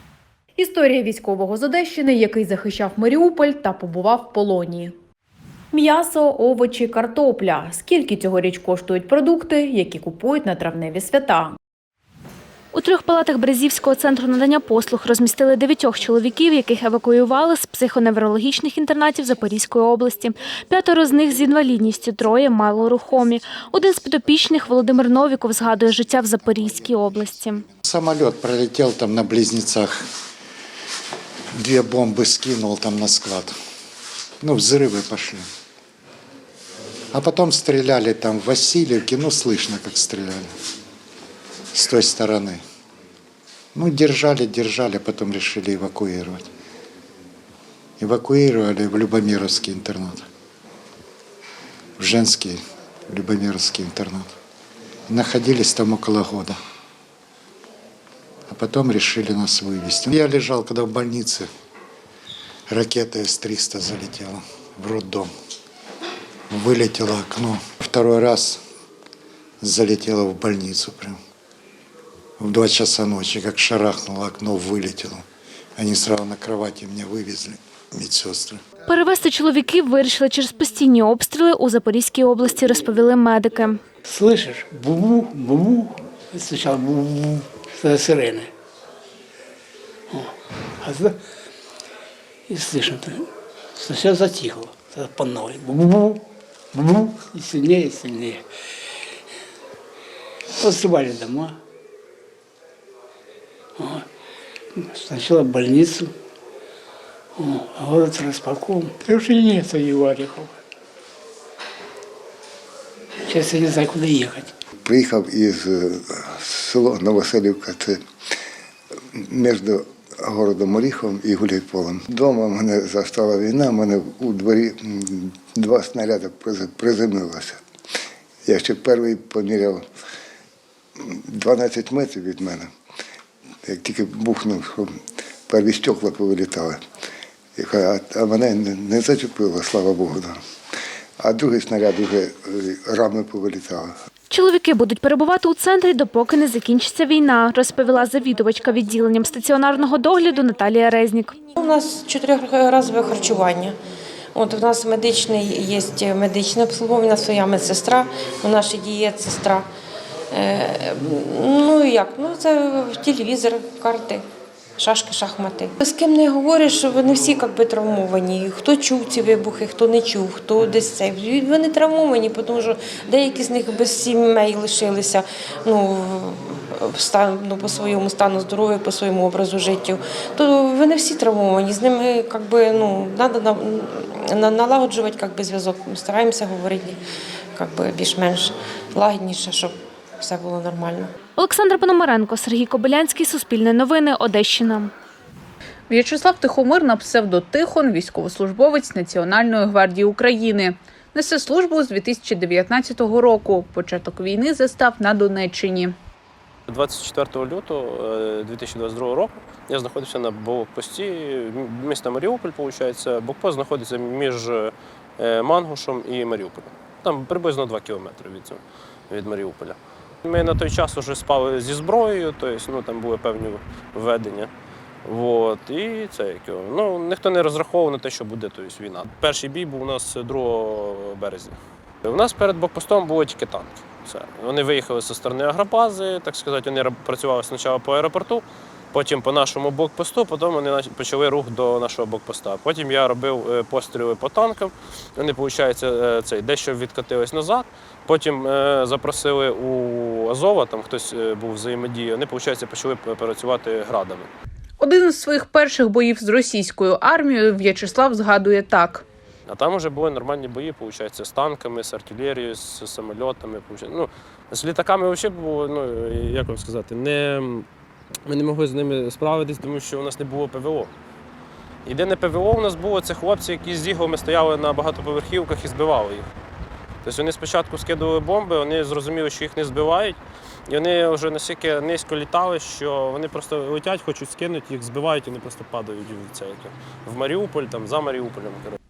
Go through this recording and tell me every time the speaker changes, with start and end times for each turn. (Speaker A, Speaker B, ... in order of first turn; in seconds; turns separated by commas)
Speaker A: 0.6-4.9, Speaker A: 5.7-11.6, Speaker B: 12.7-27.6, Speaker C: 27.8-30.0, Speaker C: 31.6-33.5, Speaker C: 34.4-35.4, Speaker C: 37.1-40.5, Speaker C: 41.7-42.6, Speaker C: 43.7-46.5, Speaker C: 48.0-50.2, Speaker C: 52.0-54.3, Speaker C: 55.1-56.5, Speaker C: 58.5-61.5, Speaker C: 62.7-65.3, Speaker C: 66.5-68.6, Speaker C: 69.6-71.2, Speaker C: 72.4-75.2, Speaker C: 75.8-78.6, Speaker B: 78.9-83.8, Speaker D: 84.0-88.5, Speaker D: 90.8-91.2, Speaker D: 92.5-96.2, Speaker D: 96.7-98.4, Speaker D: 100.6-101.5, Speaker D: 103.8-104.0, Speaker D: 104.8-106.1, Speaker D: 107.4-110.5, Speaker D: 113.3-114.5, Speaker E: 114.8-118.0, Speaker E: 119.2-127.6, Speaker E: 128.4-129.8, Speaker E: 131.1-132.7, Speaker E: 133.7-134.9, Speaker E: 135.5-136.8, Speaker E: 137.6-140.3, Speaker E: 141.2-143.9, Speaker B: 144.3-151.3, Speaker F: 151.6-153.8, Speaker F: 154.3-159.7, Speaker F: 160.3-164.2, Speaker F: 164.8-187.0, Speaker F: 187.6-191.1, Speaker B: 191.4-194.9, Speaker G: 195.9-205.9, Speaker H: 206.7-224.5, Speaker H: 225.0-254.3, Speaker G: 254.8-259.0, Speaker H: 259.5-267.6, Speaker H: 268.3-270.9, Speaker H: 271.9-276.2, Speaker H: 277.0-288.8